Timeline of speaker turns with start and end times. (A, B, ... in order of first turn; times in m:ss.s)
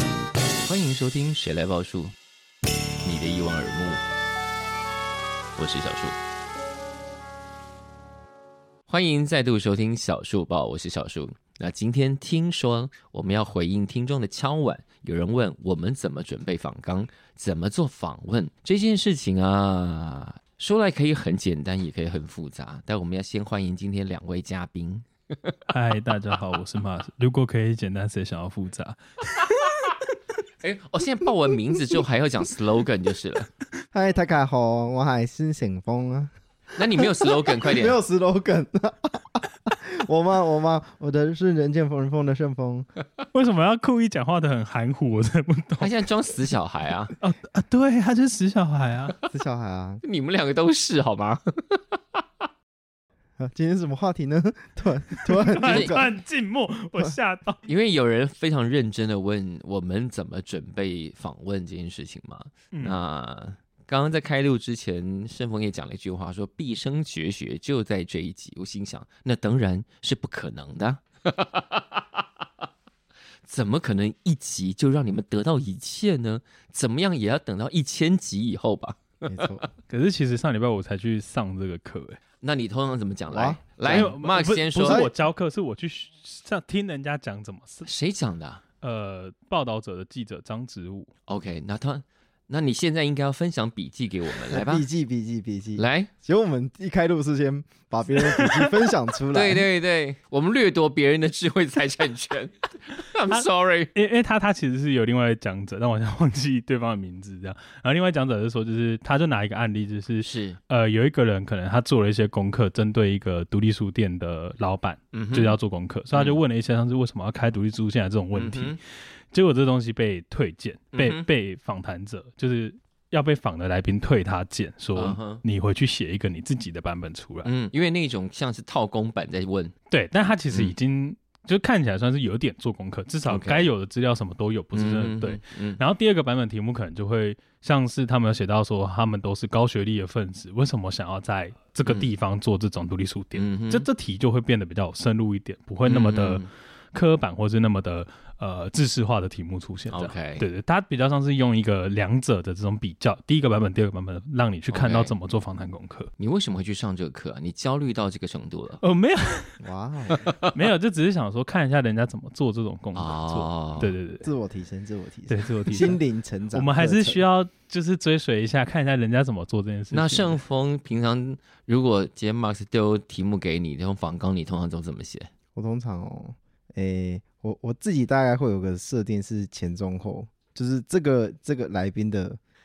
0:00.6-0:02.1 A
0:03.0-0:04.0 A
0:05.6-0:06.2 A
0:08.9-0:25.5 A
0:25.7-0:29.0 B
0:30.6-0:33.5 A
0:33.9-0:36.3 C
0:36.8-0:38.0 A
0:36.9-0:42.9 C
0:43.3-0:46.0 B
0:45.8-0:47.1 A
0:47.2-0:49.1 B
0:49.3-0:50.0 C
0:50.0-0:52.0 A
0:53.4-0:56.1 C
0:55.4-0:57.6 B
0:55.6-0:56.0 A
0:57.6-1:11.8 A
1:02.7-1:03.0 B
1:13.4-1:19.6 A
1:19.3-1:19.7 C
1:19.9-1:22.2 B
1:22.4-1:25.1 A
1:23.3-1:24.1 C
1:23.8-1:27.9 B
1:24.8-1:25.1 C
1:27.8-1:28.6 A
1:28.8-1:31.1 B
1:31.3-1:34.9 A
1:34.5-1:39.7 C
1:35.8-1:36.1 A
1:38.3-1:38.7 B
1:39.3-1:43.9 A
1:43.3-1:58.8 B
1:50.2-1:50.6 A
1:55.1-1:55.6 A
1:56.1-1:56.4 A
1:58.3-1:58.8 A
1:59.3-2:07.5 B
2:00.9-2:01.3 A
2:04.9-2:05.4 A
2:07.4-2:09.7 A
2:09.9-2:36.1 B
2:13.2-2:13.7 A
2:14.7-2:15.8 A
2:23.3-2:23.8 A
2:25.8-2:26.5 A
2:29.9-2:30.4 A
2:34.7-2:35.1 A
2:36.2-2:38.8 A
2:38.8-2:39.6 B
2:39.6-2:40.3 C
2:40.5-2:44.3 B
2:42.9-2:43.9 A
2:44.2-2:47.2 C
2:45.3-2:46.0 B
2:46.5-2:50.4 B
2:49.9-2:55.3 A
2:55.5-3:02.4 C